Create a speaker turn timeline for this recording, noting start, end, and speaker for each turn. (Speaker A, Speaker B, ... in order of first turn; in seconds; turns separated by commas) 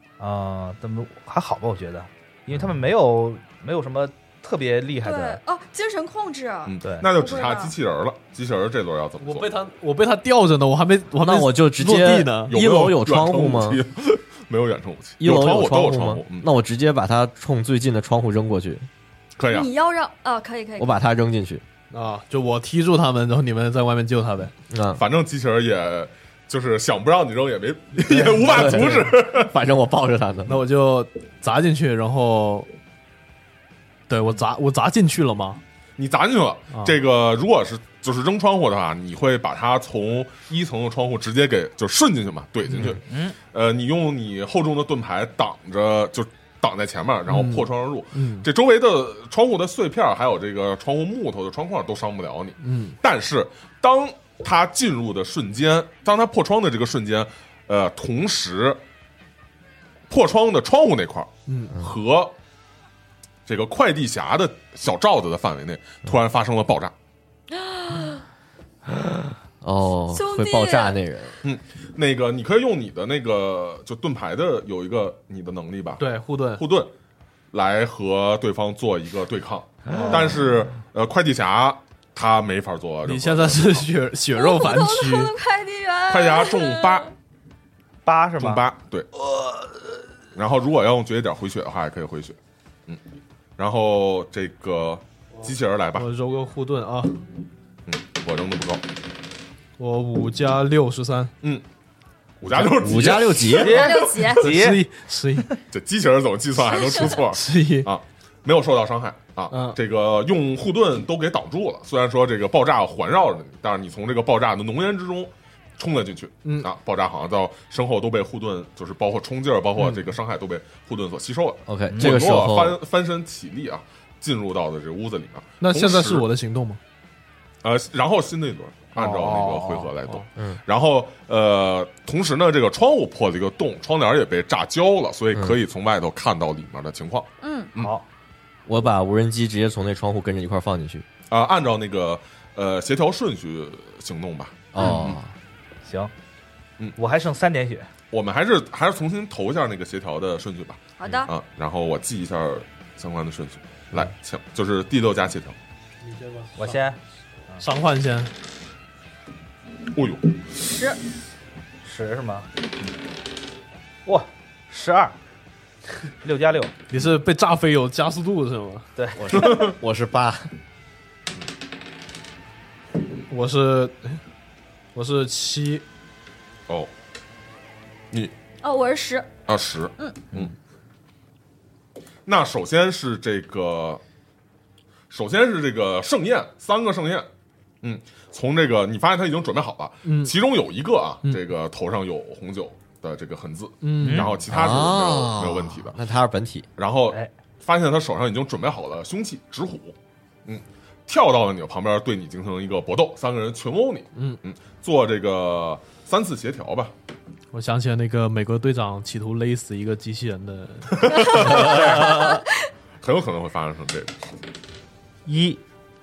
Speaker A: 0.2-5.4, Speaker B: 5.0-7.8, Speaker C: 6.7-9.6, Speaker D: 9.2-12.5, Speaker E: 11.2-13.8, Speaker C: 12.5-16.5, Speaker E: 15.2-18.9, Speaker C: 19.4-19.7, Speaker B: 19.5-21.0, Speaker E: 20.8-21.6, Speaker D: 21.9-24.5, Speaker E: 24.7-25.0, Speaker C: 24.9-29.5, Speaker E: 28.2-30.6, Speaker D: 30.5-32.7, Speaker D: 34.1-35.6, Speaker C: 36.0-58.8, Speaker A: 42.9-43.4, Speaker D: 47.3-48.5, Speaker D: 52.6-53.0, Speaker C: 60.1-62.4, Speaker D: 61.5-61.8, Speaker C: 63.5-66.9, Speaker B: 67.5-68.2, Speaker E: 69.0-71.4, Speaker B: 70.1-71.0, Speaker C: 71.4-76.9, Speaker D: 76.0-76.7, Speaker C: 77.5-83.9, Speaker D: 83.0-85.3, Speaker B: 84.4-87.1, Speaker C: 86.1-87.1, Speaker A: 88.0-88.6, Speaker C: 88.4-89.1, Speaker C: 90.3-93.0, Speaker C: 93.6-96.1, Speaker D: 96.0-97.2, Speaker C: 97.9-98.8, Speaker D: 99.8-101.3, Speaker C: 102.4-104.3, Speaker E: 102.5-103.9, Speaker A: 103.6-104.8, Speaker B: 103.7-104.5, Speaker D: 104.4-105.6, Speaker C: 105.7-126.3, Speaker D: 107.3-107.9, Speaker D: 109.5-109.8, Speaker D: 116.5-116.7, Speaker D: 119.8-120.0, Speaker E: 121.7-122.8, Speaker D: 125.6-126.8, Speaker C: 127.6-137.9, Speaker D: 129.0-130.2, Speaker B: 137.4-137.7, Speaker A: 137.8-138.1, Speaker E: 138.7-141.1, Speaker C: 141.3-145.2, Speaker E: 144.7-145.3, Speaker A: 145.9-146.1, Speaker A: 147.0-147.9, Speaker C: 148.1-155.6, Speaker B: 151.0-151.3, Speaker D: 156.0-156.8, Speaker A: 156.6-157.0, Speaker D: 157.6-158.3, Speaker C: 159.9-160.8, Speaker B: 160.7-161.0, Speaker A: 161.8-162.5, Speaker A: 164.1-165.2, Speaker A: 166.2-166.7, Speaker D: 166.9-168.9, Speaker A: 169.0-169.5, Speaker E: 169.2-170.5, Speaker C: 169.3-169.7, Speaker D: 173.3-174.2, Speaker D: 174.9-175.8, Speaker B: 178.6-179.3, Speaker C: 179.5-180.5, Speaker C: 182.3-184.0, Speaker C: 185.1-187.3, Speaker C: 187.8-196.0, Speaker D: 190.1-190.4, Speaker D: 193.8-194.3, Speaker A: 194.0-194.3, Speaker E: 194.5-196.7, Speaker C: 196.8-199.9, Speaker C: 200.5-206.9, Speaker D: 207.5-212.2, Speaker C: 210.9-212.4, Speaker C: 213.0-214.3, Speaker A: 215.3-215.6